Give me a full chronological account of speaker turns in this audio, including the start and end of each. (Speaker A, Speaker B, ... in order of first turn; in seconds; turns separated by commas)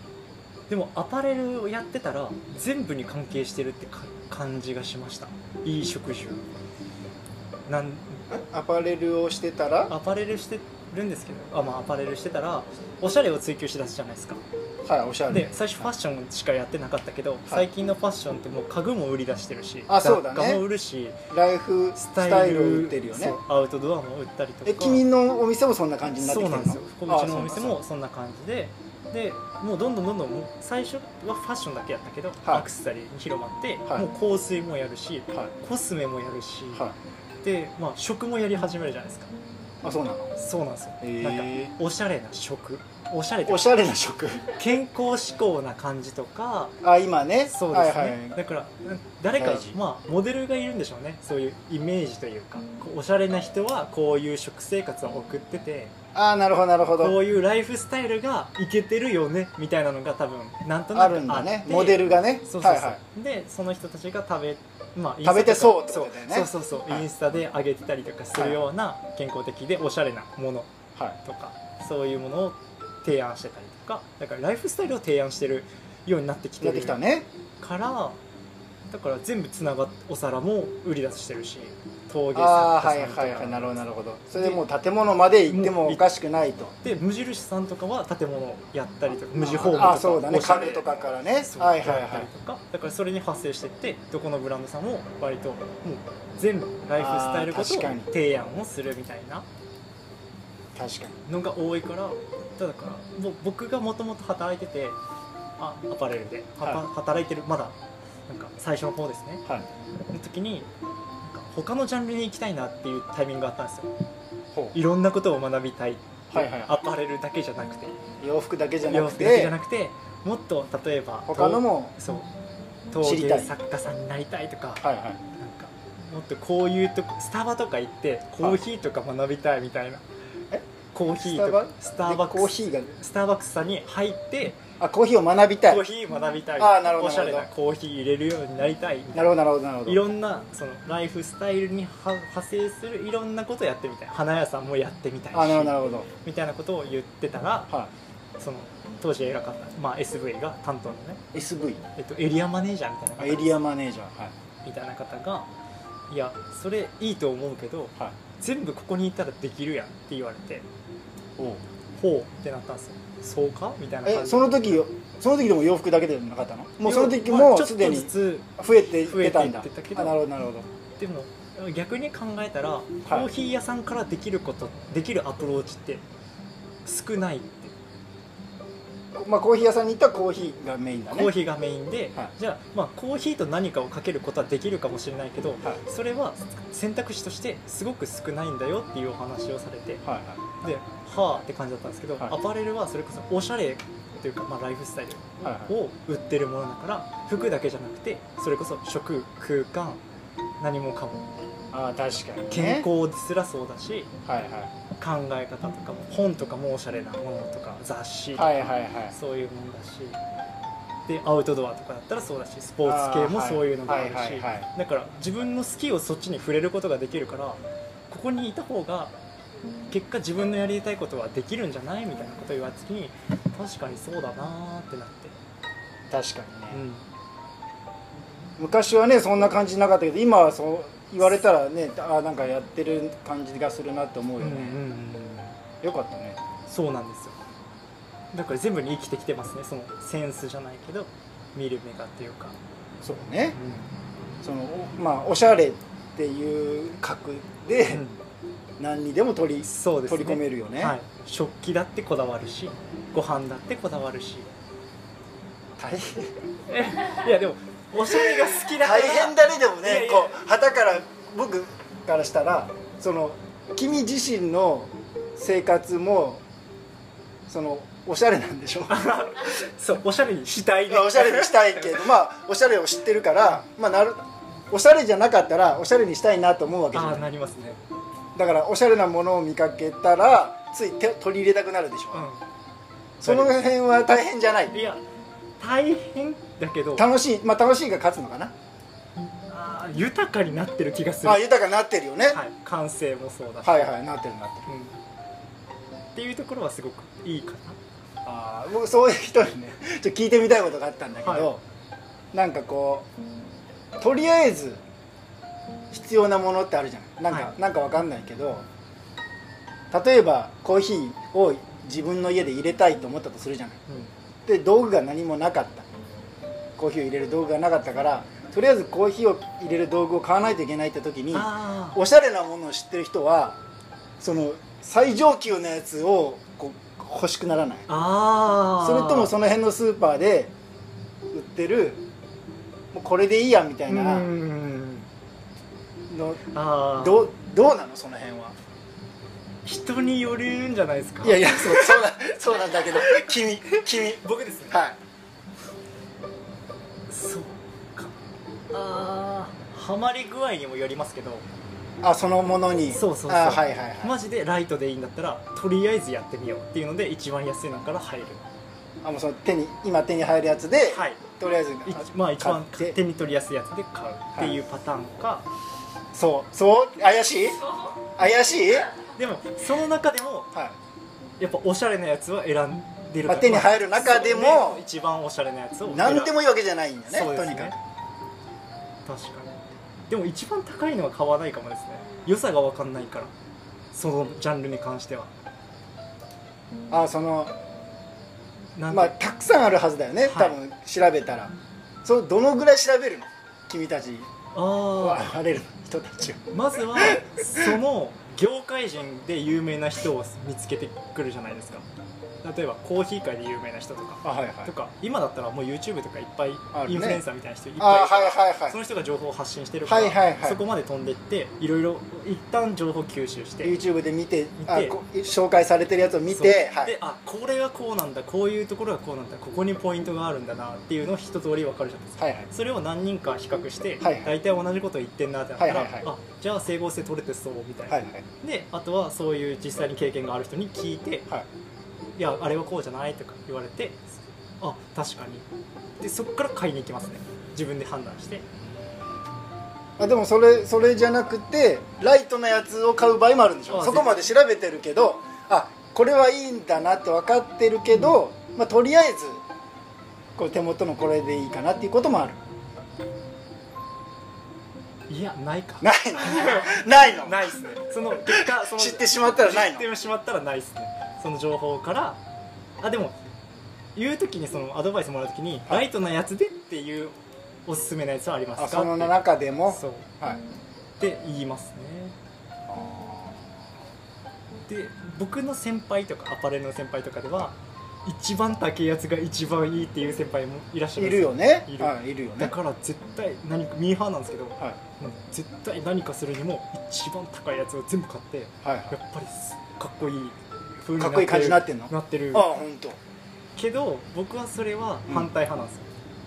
Speaker A: 0.7-6.5, Speaker A: 7.7-8.3, Speaker B: 8.3-9.9, Speaker A: 9.9-14.4, Speaker B: 14.8-15.9, Speaker A: 15.3-21.2, Speaker B: 19.9-20.6, Speaker B: 21.3-23.4, Speaker A: 22.0-25.1, Speaker B: 24.7-27.8, Speaker A: 26.2-36.9, Speaker A: 37.4-39.3, Speaker B: 39.8-40.3, Speaker A: 40.4-43.8, Speaker B: 41.0-41.7, Speaker B: 43.5-44.5, Speaker A: 44.5-46.8, Speaker B: 46.8-48.4, Speaker A: 47.5-55.9, Speaker B: 49.4-49.8, Speaker B: 56.1-57.2, Speaker A: 57.0-77.0, Speaker B: 60.9-63.0, Speaker B: 65.2-67.1, Speaker B: 68.4-68.6, Speaker B: 76.6-77.3, Speaker A: 77.6-78.2, Speaker A: 78.9-83.8, Speaker B: 82.3-86.7, Speaker A: 85.5-86.0, Speaker A: 86.8-99.5, Speaker B: 89.4-92.3, Speaker B: 97.0-98.1, Speaker B: 100.8-101.2, Speaker A: 101.3-105.0, Speaker A: 105.6-107.8, Speaker A: 108.3-109.5, Speaker A: 110.1-110.7, Speaker A: 111.2-113.9, Speaker A: 114.7-118.0, Speaker B: 116.3-116.8, Speaker B: 118.2-119.5, Speaker A: 118.9-122.3, Speaker B: 121.3-121.9, Speaker A: 122.9-130.0, Speaker B: 123.0-123.5, Speaker B: 124.8-125.2, Speaker A: 130.9-134.6, Speaker B: 131.2-132.9, Speaker B: 134.8-135.8, Speaker A: 135.6-139.3, Speaker B: 136.6-137.5, Speaker B: 139.1-140.0, Speaker A: 139.9-147.7, Speaker B: 145.3-146.1, Speaker A: 148.4-151.2, Speaker B: 151.3-151.8, Speaker A: 152.0-153.6, Speaker B: 153.2-154.3, Speaker A: 154.7-155.5, Speaker A: 156.1-160.7, Speaker B: 161.4-161.6, Speaker A: 161.9-164.8, Speaker B: 164.1-170.7, Speaker A: 166.8-170.2, Speaker A: 171.0-176.0, Speaker A: 176.8-177.7, Speaker B: 179.2-181.3, Speaker A: 181.1-190.0, Speaker B: 190.1-190.4, Speaker A: 190.6-200.0, Speaker B: 195.4-195.7, Speaker A: 200.6-201.3, Speaker B: 201.7-202.9, Speaker A: 202.5-204.1, Speaker B: 204.3-204.7, Speaker A: 205.0-210.2, Speaker B: 208.3-209.2, Speaker A: 211.1-219.1, Speaker B: 212.8-214.7, Speaker A: 219.9-225.4, Speaker B: 226.1-226.8, Speaker A: 226.7-227.1, Speaker B: 228.6-234.8, Speaker A: 234.4-235.6, Speaker B: 235.8-236.4, Speaker A: 236.7-237.4, Speaker A: 238.3-242.6, Speaker B: 243.0-243.6, Speaker A: 243.6-243.9, Speaker B: 244.4-248.1, Speaker A: 247.9-248.2, Speaker B: 248.8-251.0, Speaker A: 249.7-254.5, Speaker B: 255.8-256.4, Speaker A: 256.7-260.4, Speaker B: 258.6-266.4, Speaker B: 267.5-268.9, Speaker A: 268.9-272.1, Speaker B: 270.9-277.3, Speaker A: 276.9-277.8, Speaker B: 278.4-282.3, Speaker A: 282.1-282.4, Speaker B: 283.2-284.8, Speaker A: 283.2-283.6, Speaker A: 284.7-285.0, Speaker A: 285.6-287.1, Speaker B: 287.0-288.5, Speaker A: 289.5-291.5, Speaker B: 291.2-292.4, Speaker A: 292.3-293.9, Speaker B: 293.6-294.7, Speaker A: 294.7-295.0, Speaker A: 296.1-297.8, Speaker B: 298.2-301.6, Speaker A: 301.2-301.5, Speaker B: 302.3-303.1, Speaker B: 304.0-304.8, Speaker B: 305.9-308.7, Speaker B: 309.9-313.8, Speaker B: 314.5-315.9, Speaker B: 316.8-323.6, Speaker A: 321.3-322.0, Speaker B: 324.2-327.9, Speaker A: 327.9-329.3, Speaker B: 328.8-330.5, Speaker B: 331.3-332.0, Speaker B: 332.9-334.3, Speaker A: 333.9-335.1, Speaker B: 336.1-336.4, Speaker A: 336.5-337.3, Speaker B: 337.0-338.6, Speaker A: 339.6-344.8, Speaker B: 341.2-345.0, Speaker A: 347.1-348.2, Speaker A: 348.7-351.5, Speaker B: 352.0-354.2, Speaker A: 352.9-358.5, Speaker B: 359.0-363.0, Speaker A: 360.9-361.2, Speaker A: 361.9-365.5, Speaker B: 364.4-364.6, Speaker B: 366.1-367.6, Speaker B: 368.2-368.9, Speaker A: 369.1-370.5, Speaker A: 371.4-376.4, Speaker B: 373.2-374.8, Speaker B: 375.9-377.8, Speaker A: 377.1-377.8, Speaker A: 379.1-383.3, Speaker A: 383.9-385.3, Speaker B: 386.9-387.5, Speaker A: 388.8-389.1, Speaker B: 388.9-391.5, Speaker A: 390.2-390.6, Speaker B: 392.0-394.3, Speaker A: 394.5-395.3, Speaker B: 395.0-397.8, Speaker A: 396.5-401.9, Speaker A: 402.4-413.8, Speaker B: 404.2-404.7, Speaker B: 406.7-407.2, Speaker B: 407.8-408.8, Speaker B: 409.9-410.6, Speaker B: 413.6-417.0, Speaker A: 414.6-415.0, Speaker A: 416.3-431.3, Speaker B: 422.2-422.5, Speaker B: 424.0-424.4, Speaker B: 425.6-426.1, Speaker B: 427.9-428.3, Speaker A: 432.2-435.5, Speaker A: 436.0-438.4, Speaker B: 440.0-449.4, Speaker A: 443.7-444.3, Speaker B: 450.4-452.4, Speaker A: 455.1-462.2, Speaker B: 455.8-459.9, Speaker A: 462.8-463.2, Speaker A: 463.9-470.1, Speaker B: 468.6-470.4, Speaker A: 471.0-472.1, Speaker B: 472.7-473.5, Speaker A: 474.7-492.5, Speaker B: 481.0-482.6, Speaker B: 488.6-489.0, Speaker B: 491.0-493.0, Speaker A: 493.6-495.9